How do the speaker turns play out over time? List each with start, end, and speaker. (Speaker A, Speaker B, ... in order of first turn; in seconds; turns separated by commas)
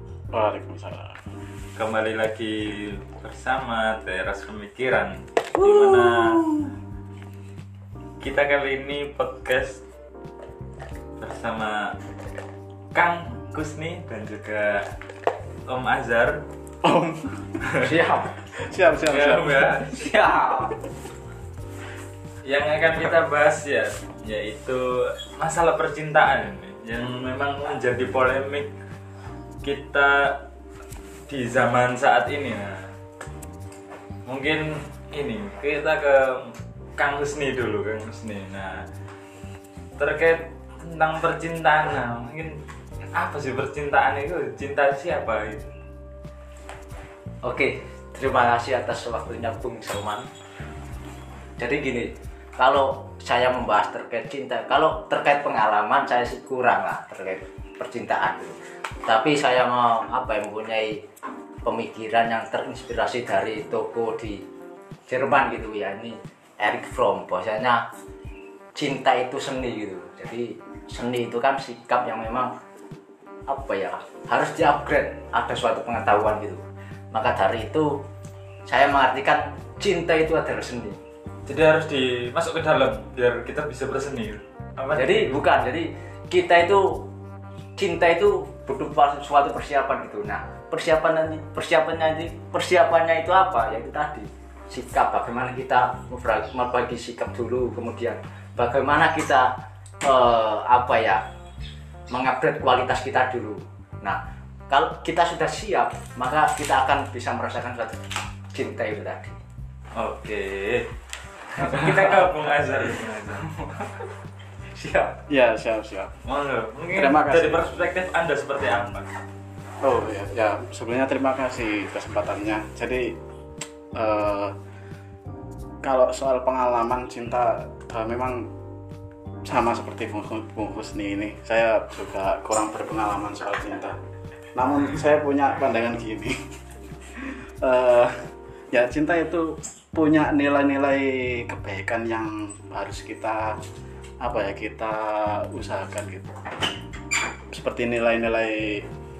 Speaker A: 0.3-1.2, Speaker B: 1.8-6.5, Speaker C: 5.6-6.7, Speaker B: 8.2-9.8, Speaker B: 11.2-11.9, Speaker B: 12.9-14.9, Speaker B: 15.7-16.4, Speaker A: 16.8-17.5, Speaker B: 17.6-17.9, Speaker C: 17.8-18.3, Speaker A: 18.5-19.8, Speaker B: 19.0-20.1, Speaker C: 19.8-20.7, Speaker B: 22.4-28.7, Speaker B: 29.6-30.4, Speaker B: 31.3-32.9, Speaker B: 34.2-38.9, Speaker B: 40.0-42.6, Speaker B: 43.1-45.7, Speaker C: 47.4-50.3, Speaker C: 51.6-61.0, Speaker C: 61.6-64.4, Speaker C: 65.1-67.8, Speaker C: 68.8-72.5, Speaker C: 73.5-77.9, Speaker C: 78.7-81.0, Speaker B: 81.5-85.4, Speaker C: 84.9-87.0, Speaker C: 87.8-99.5, Speaker C: 100.0-101.2, Speaker C: 102.1-108.0, Speaker C: 108.5-109.4, Speaker B: 109.9-110.9, Speaker B: 111.5-113.4, Speaker C: 111.6-112.3, Speaker C: 113.5-113.9, Speaker C: 114.7-115.2, Speaker A: 115.3-116.2, Speaker B: 116.2-119.1, Speaker A: 116.9-117.7, Speaker A: 119.8-123.2, Speaker A: 123.9-124.5, Speaker A: 125.8-128.5, Speaker A: 129.4-134.0, Speaker A: 134.5-136.3, Speaker A: 137.2-143.6, Speaker A: 144.2-146.3, Speaker A: 147.5-148.8